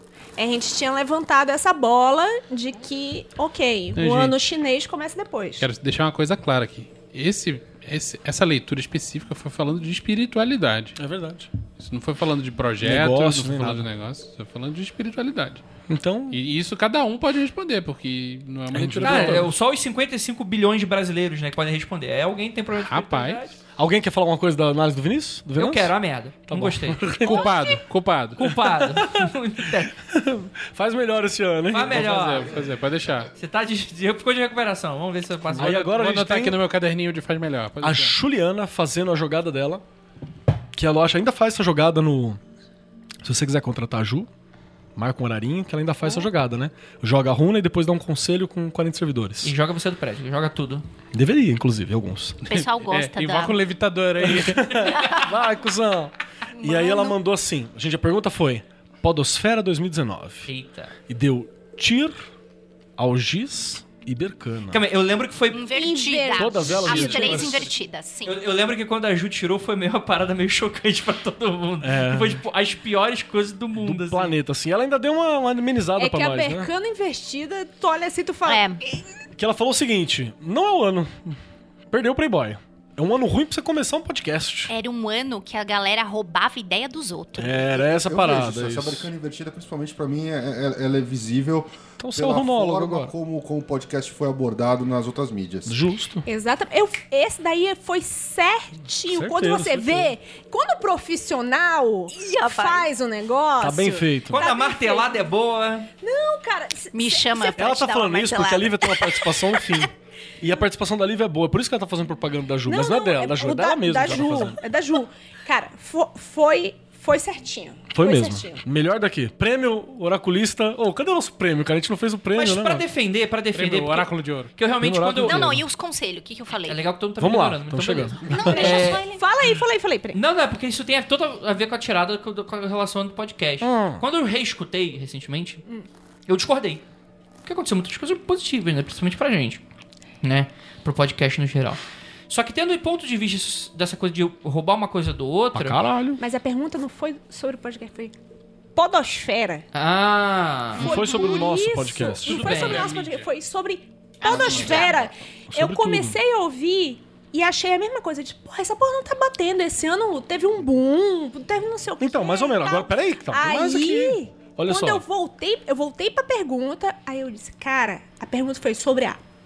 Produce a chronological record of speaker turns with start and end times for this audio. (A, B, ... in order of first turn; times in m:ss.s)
0:00.4-0:05.7 A
0:04.0-0:04.4 B
0:05.6-0:11.0 B
0:11.0-0:11.5 C
0:11.7-0:15.7 B
0:12.8-0:13.9 C
0:15.9-0:16.4 C
0:16.3-0:19.5 B
0:18.7-0:19.5 C
0:19.0-0:23.6 D
0:22.9-0:23.4 B
0:23.8-0:25.9 C
0:25.6-0:27.4 D
0:26.5-0:27.6 C
0:27.2-0:28.6 B
0:28.4-0:30.0 D
0:30.1-0:32.4 C
0:31.7-0:32.6 D
0:31.8-0:33.3 B
0:33.4-0:36.1 D
0:35.5-0:36.6 C
0:35.9-0:38.2 B
0:37.8-0:39.8 C
0:40.7-0:42.4 C
0:43.2-0:44.3 C
0:45.0-0:49.5 C
0:49.4-0:50.8 D
0:51.1-0:52.4 C
0:52.5-0:53.6 E
0:52.5-0:55.1 B
0:54.2-1:00.5 C
0:56.6-0:57.1 A
1:00.5-1:00.9 D
1:01.1-1:02.2 C
1:03.0-1:04.8 C
1:04.7-1:05.8 D
1:05.5-1:08.4 E
1:05.7-1:07.6 A
1:06.4-1:07.7 C
1:06.9-1:07.6 D
1:08.2-1:14.4 D
1:11.8-1:12.4 C
1:13.8-1:16.7 C
1:16.0-1:18.6 A
1:18.4-1:18.8 E
1:19.4-1:21.4 C
1:21.9-1:24.7 C
1:24.7-1:27.8 E
1:27.4-1:29.1 C
1:28.0-1:35.7 F
1:32.0-1:33.1 C
1:35.7-1:36.3 C
1:36.3-1:45.2 A
1:39.1-1:40.1 C
1:42.1-1:42.9 E
1:43.6-1:44.4 C
1:44.3-1:45.9 D
1:46.0-1:47.6 A
1:46.9-1:49.2 E
1:47.6-1:54.6 C
1:52.7-1:58.6 A
1:57.9-2:02.8 C
2:02.3-2:05.6 D
2:03.5-2:04.5 B
2:04.8-2:05.6 C
2:05.2-2:06.8 E
2:06.6-2:09.0 D
2:07.2-2:08.8 C
2:08.2-2:09.2 E
2:08.5-2:10.2 A
2:10.1-2:15.6 D
2:13.6-2:14.0 C
2:16.3-2:16.8 D
2:17.4-2:19.6 D
2:20.2-2:25.8 D
2:25.5-2:26.2 C
2:26.2-2:28.1 A
2:28.8-2:29.6 A
2:29.7-2:31.4 D
2:30.8-2:32.6 C
2:30.8-2:49.2 A
2:32.2-2:32.9 D
2:32.3-2:33.3 B
2:34.2-2:35.1 E
2:34.4-2:34.9 D
2:35.5-2:36.2 C
2:42.0-2:45.0 C